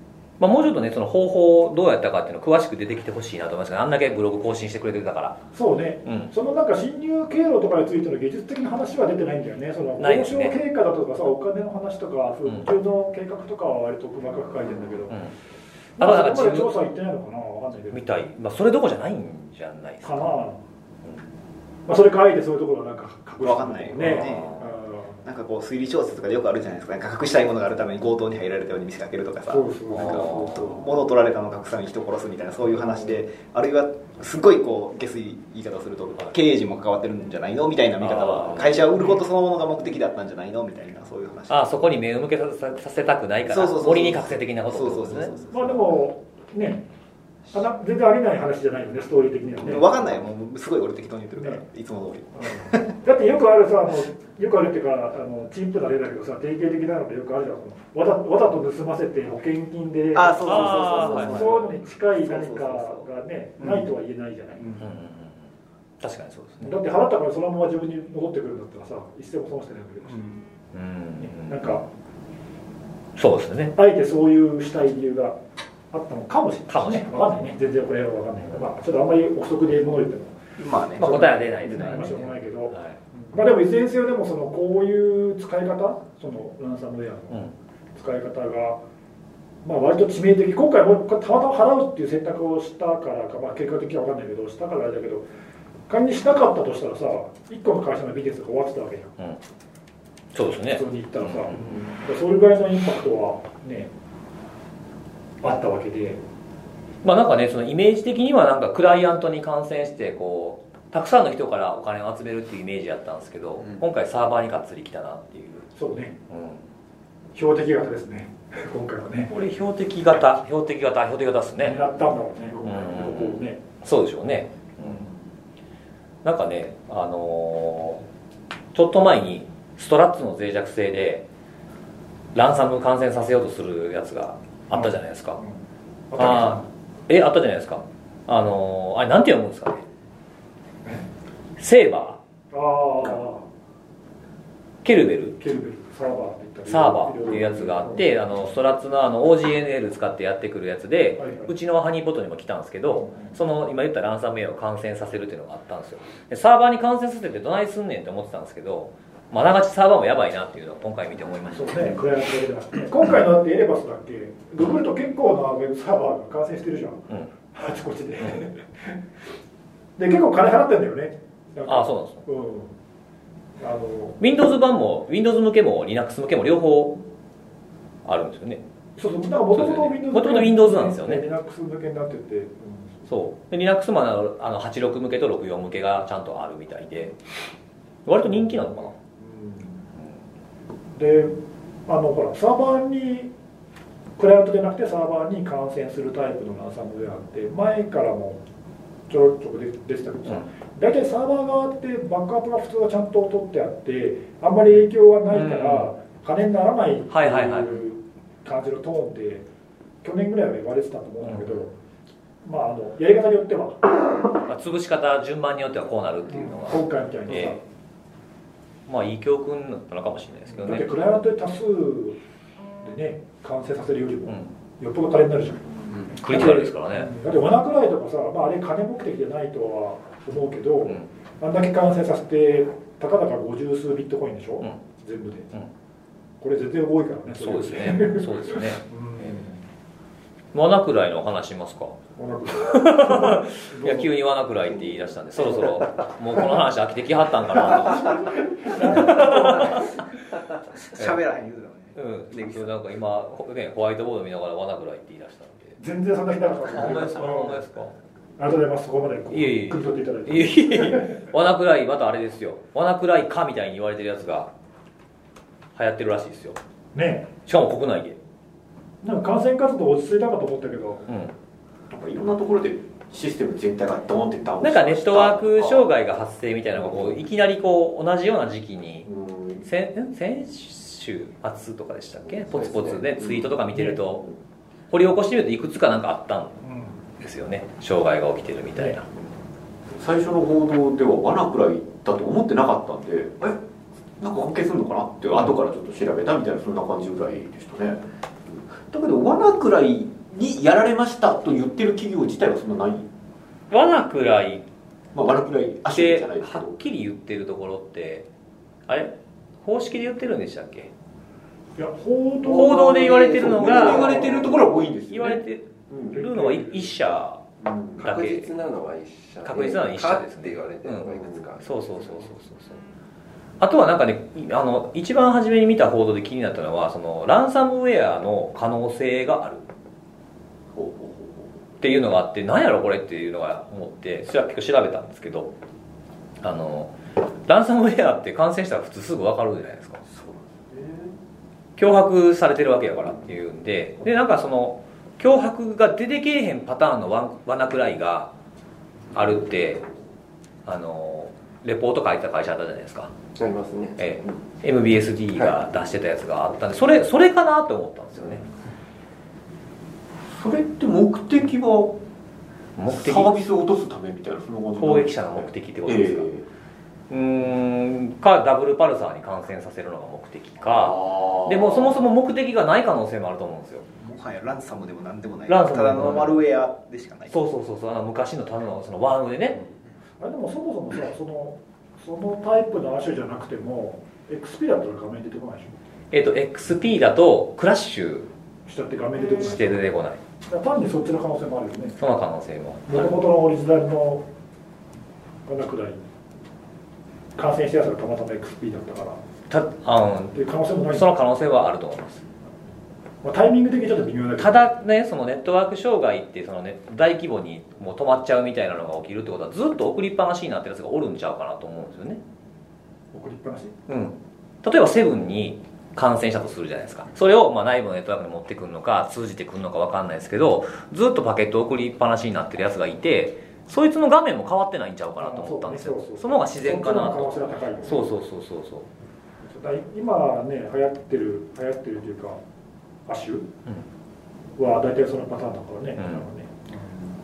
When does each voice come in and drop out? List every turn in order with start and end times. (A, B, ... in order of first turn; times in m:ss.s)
0:00.4-0:05.4 A
0:05.5-0:15.3 B
0:06.0-0:06.3 A
0:10.0-0:10.6 A
0:16.0-0:18.0 B
0:16.0-0:16.7 A
0:17.9-0:20.4 A
0:20.0-0:20.6 B
0:21.8-0:25.2 B
0:23.4-0:41.6 C
0:24.0-0:24.6 A
0:29.5-0:30.8 B
0:29.9-0:30.7 A
0:38.0-0:38.8 A
0:41.5-0:45.3 A
0:43.5-0:46.0 C
0:45.5-0:46.8 B
0:47.5-0:50.0 B
0:49.6-0:52.9 C
0:51.4-0:51.6 B
0:52.4-1:04.8 B
1:00.1-1:03.0 C
1:00.4-1:01.4 A
1:04.8-1:05.5 A
1:06.0-1:06.8 A
1:06.6-1:10.4 B
1:10.7-1:11.8 A
1:11.2-1:11.8 B
1:13.2-1:13.7 A
1:13.8-1:15.4 B
1:15.9-1:20.4 B
1:16.7-1:17.5 A
1:20.6-1:22.2 C
1:21.0-1:28.8 B
1:21.0-1:23.0 A
1:29.6-1:35.3 B
1:35.9-1:39.1 B
1:40.3-1:41.8 A
1:40.7-1:43.9 B
1:45.4-1:46.2 B
1:47.0-1:55.7 A
1:55.8-1:56.2 B
1:56.3-1:56.6 A
1:57.3-1:59.3 B
1:59.3-2:01.8 A
2:01.6-2:03.6 B
2:02.6-2:05.1 A
2:04.8-2:05.2 B
2:06.2-2:08.0 A
2:08.7-2:11.3 A
2:12.3-2:15.4 A
2:14.7-2:15.5 B
2:16.1-2:16.6 B
2:16.2-2:19.8 A
2:21.6-2:22.2 A
2:22.5-2:23.5 B
2:24.8-2:25.4 A
2:25.4-2:28.0 B
2:26.6-2:42.0 A
2:31.2-2:31.5 B
2:32.9-2:33.3 B
2:41.5-2:49.0 B
2:50.0-2:52.7 B
2:51.6-2:52.2 A
2:53.6-2:54.2 B
2:54.2-2:57.0 A
2:58.0-2:58.6 A
2:59.0-3:03.0 B
2:59.5-3:01.2 A
3:03.1-3:07.2 A
3:08.0-3:08.9 A
3:08.3-3:09.8 B
3:10.9-3:13.3 B
3:14.2-3:18.4 B
3:19.1-3:29.4 B
3:25.3-3:25.9 A
3:27.1-3:27.8 A
3:30.0-3:31.7 B
3:31.2-3:31.6 A
3:32.4-3:34.0 B
3:34.4-3:37.6 A
3:36.3-3:37.6 B
3:38.9-3:40.9 A
3:40.5-3:42.2 B
3:42.8-3:55.5 B
3:46.1-3:47.1 A
3:56.4-3:59.6 B
3:57.4-3:59.4 A
4:00.5-4:09.9 A
4:02.2-4:04.1 B
4:07.6-4:09.8 B
4:09.2-4:09.7 C
4:10.8-4:12.7 C
4:11.9-4:15.8 A
4:15.8-4:17.6 B
4:16.7-4:17.9 A
4:18.4-4:21.2 B
4:19.3-4:24.5 A
4:25.7-4:26.6 A
4:26.9-4:27.3 B
4:27.4-4:28.2 A
4:29.0-4:31.1 B
4:31.1-4:31.3 A
4:31.9-4:35.9 D
4:34.6-4:39.1 A
4:36.8-4:37.2 D
4:39.0-4:39.6 D
4:39.6-4:44.2 A
4:44.9-4:46.6 A
4:46.6-4:47.0 B
4:47.2-4:49.0 A
4:50.0-4:53.6 D
4:54.2-4:58.0 D
4:58.6-5:03.1 D
5:03.7-5:04.6 A
5:05.1-5:06.8 D
5:05.9-5:08.3 A
5:08.9-5:10.9 A
5:11.8-5:14.5 B
5:12.4-5:14.4 A
5:12.6-5:16.2 D
5:15.1-5:17.4 A
5:16.1-5:17.0 B
5:17.6-5:18.0 D
5:18.0-5:21.7 E
5:18.0-5:18.5 A
5:19.4-5:22.8 A
5:21.1-5:21.4 D
5:23.6-5:29.6 A
5:30.7-5:31.4 D
5:31.8-5:35.5 A
5:36.4-5:40.0 A
5:40.0-5:41.1 D
5:41.8-5:48.3 A
5:49.1-5:49.8 A
5:50.6-5:53.1 A
5:53.4-5:54.4 E
5:54.0-5:58.4 A
6:00.3-6:02.0 D
6:02.8-6:03.4 A
6:02.9-6:06.4 D
6:04.8-6:06.3 A
6:07.1-6:13.8 A
6:10.9-6:11.9 D
6:14.0-6:17.3 C
6:15.5-6:16.4 A
6:17.3-6:19.6 A
6:20.2-6:25.8 B
6:26.1-6:28.3 A
6:28.6-6:29.8 B
6:29.3-6:30.2 A
6:30.5-6:32.0 B
6:32.0-6:33.1 A
6:32.9-6:34.2 B
6:35.4-6:36.0 B
6:37.4-6:39.2 B
6:39.5-6:42.2 A
6:40.3-6:41.1 B
6:43.2-6:44.6 B
6:44.4-6:52.2 A
6:53.1-6:53.7 B
6:53.9-7:08.9 A
7:05.2-7:08.1 B
7:09.4-7:12.4 B
7:13.0-7:13.5 B
7:14.6-7:17.0 B
7:16.0-7:16.3 A